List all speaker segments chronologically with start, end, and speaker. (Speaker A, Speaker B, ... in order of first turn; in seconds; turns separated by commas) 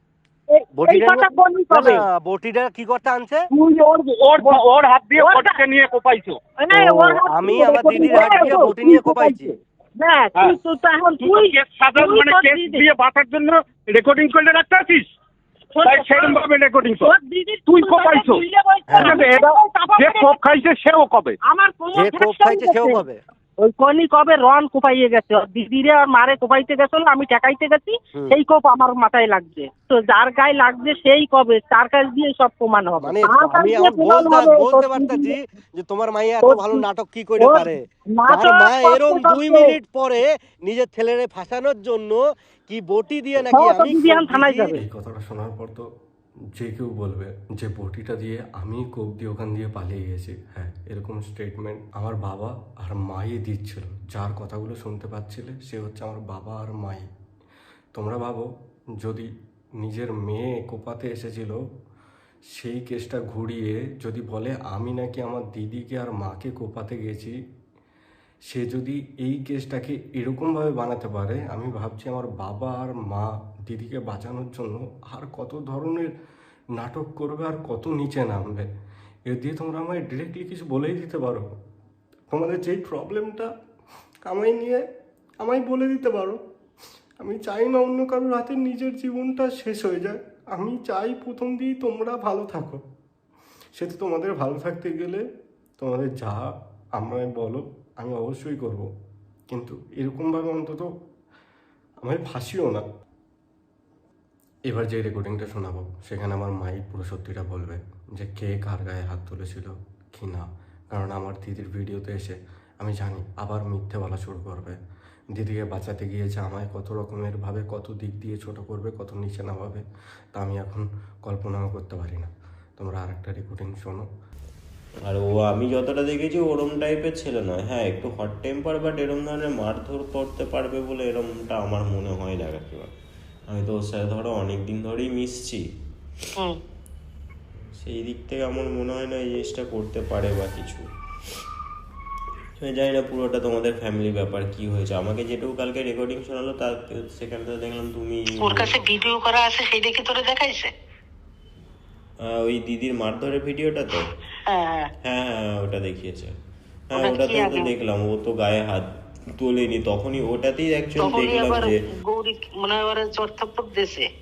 Speaker A: 0.5-2.0, Speaker B: 0.8-3.4, Speaker A: 3.6-4.6, Speaker C: 4.2-6.3, Speaker A: 5.2-5.6, Speaker A: 6.6-12.8, Speaker B: 6.7-9.5, Speaker C: 11.2-15.1, Speaker A: 15.8-16.4, Speaker C: 15.8-17.1, Speaker A: 17.0-20.4, Speaker C: 17.7-18.4, Speaker C: 19.0-21.4, Speaker A: 21.4-23.1, Speaker B: 21.9-23.2, Speaker A: 23.6-35.4, Speaker B: 33.0-44.7, Speaker A: 36.4-36.9, Speaker A: 37.4-39.8, Speaker A: 43.5-44.8, Speaker D: 44.7-45.9, Speaker D: 46.6-57.1, Speaker D: 57.9-58.5, Speaker D: 59.0-59.3, Speaker D: 59.8-61.6, Speaker D: 62.6-67.3, Speaker D: 68.5-76.1, Speaker D: 76.8-78.7, Speaker D: 79.3-81.4, Speaker D: 82.3-83.5, Speaker D: 84.3-84.8, Speaker D: 85.4-86.4, Speaker D: 87.2-92.8, Speaker D: 93.8-95.2, Speaker D: 95.8-98.9, Speaker D: 99.5-100.9, Speaker D: 102.0-102.8, Speaker D: 104.7-114.8, Speaker D: 115.3-119.8, Speaker D: 120.3-124.1, Speaker E: 125.0-132.9, Speaker E: 133.5-135.7, Speaker E: 137.6-140.9, Speaker E: 142.6-148.8, Speaker F: 148.4-150.7, Speaker E: 152.2-154.1, Speaker F: 154.5-154.9, Speaker E: 155.0-156.3, Speaker E: 156.9-161.8, Speaker F: 156.9-157.7, Speaker F: 161.0-164.1